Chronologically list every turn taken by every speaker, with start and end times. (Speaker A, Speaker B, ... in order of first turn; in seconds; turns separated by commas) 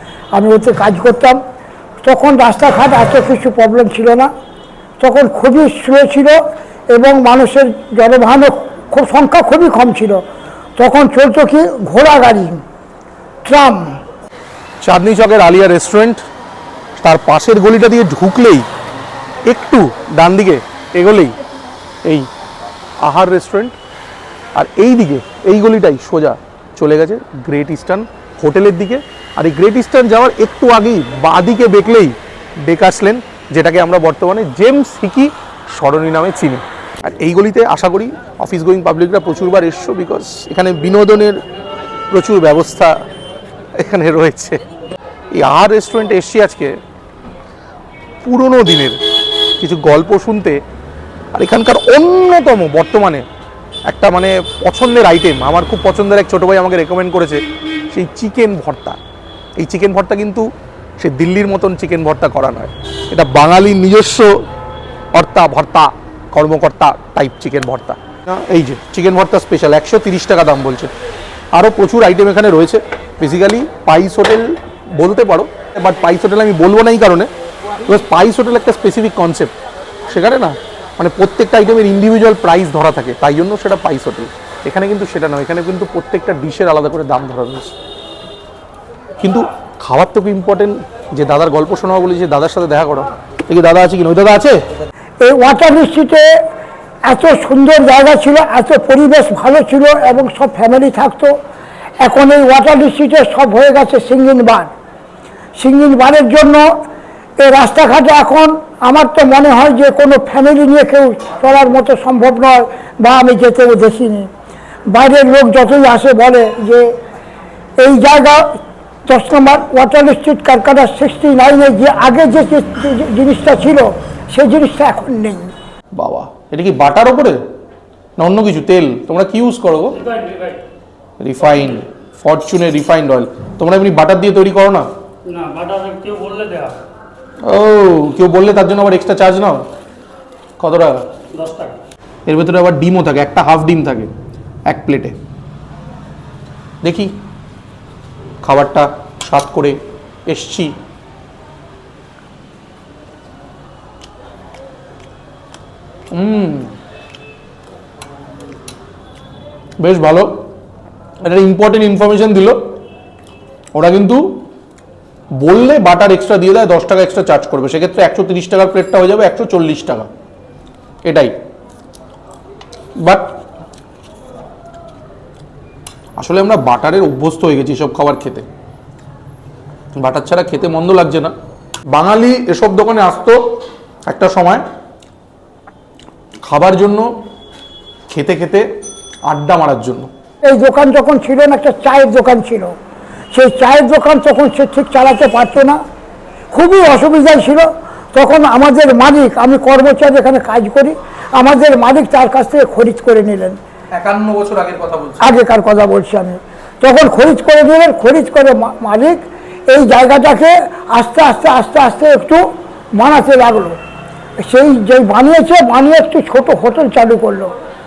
Speaker A: 0.3-1.4, Speaker A: 2.0-4.3, Speaker A: 5.0-6.4, Speaker A: 6.9-10.2, Speaker A: 10.8-12.6, Speaker A: 13.4-14.0, Speaker B: 14.8-16.2, Speaker B: 17.0-18.7, Speaker B: 19.5-21.4, Speaker B: 23.0-23.8, Speaker B: 24.6-32.1, Speaker B: 32.6-41.4, Speaker B: 42.1-42.9, Speaker B: 43.8-44.6, Speaker B: 45.3-46.7, Speaker B: 48.2-49.0, Speaker B: 49.6-50.6, Speaker B: 51.3-53.2, Speaker B: 53.9-59.0, Speaker B: 59.6-60.5, Speaker B: 61.0-64.3, Speaker B: 65.1-70.9, Speaker B: 71.5-77.3, Speaker B: 77.9-79.5, Speaker B: 80.1-87.7, Speaker B: 89.2-94.6, Speaker A: 95.2-96.3, Speaker A: 97.1-101.3, Speaker A: 102.0-104.7, Speaker A: 105.6-106.7, Speaker A: 107.4-114.3, Speaker A: 114.9-116.9, Speaker A: 117.8-118.5, Speaker A: 119.1-125.5, Speaker B: 126.0-127.4, Speaker B: 128.2-130.0, Speaker C: 130.1-130.6, Speaker B: 131.2-134.9, Speaker C: 135.3-136.8, Speaker B: 137.4-139.6, Speaker B: 140.6-141.0, Speaker C: 141.3-141.8, Speaker B: 142.3-144.1, Speaker B: 144.7-145.2, Speaker B: 146.8-147.1, Speaker B: 148.4-150.8, Speaker B: 156.1-156.7, Speaker B: 159.8-160.3, Speaker B: 161.2-162.6, Speaker B: 163.7-164.4, Speaker B: 165.4-170.1, Speaker B: 171.1-171.3, Speaker B: 173.0-173.4, Speaker B: 176.2-178.4, Speaker B: 180.0-181.3, Speaker B: 181.9-184.6, Speaker B: 186.4-187.1, Speaker B: 188.1-188.7, Speaker B: 189.3-190.1, Speaker A: 190.4-192.8, Speaker A: 193.3-195.8, Speaker A: 196.5-203.6, Speaker B: 203.9-205.3, Speaker A: 205.2-213.8, Speaker A: 214.4-217.5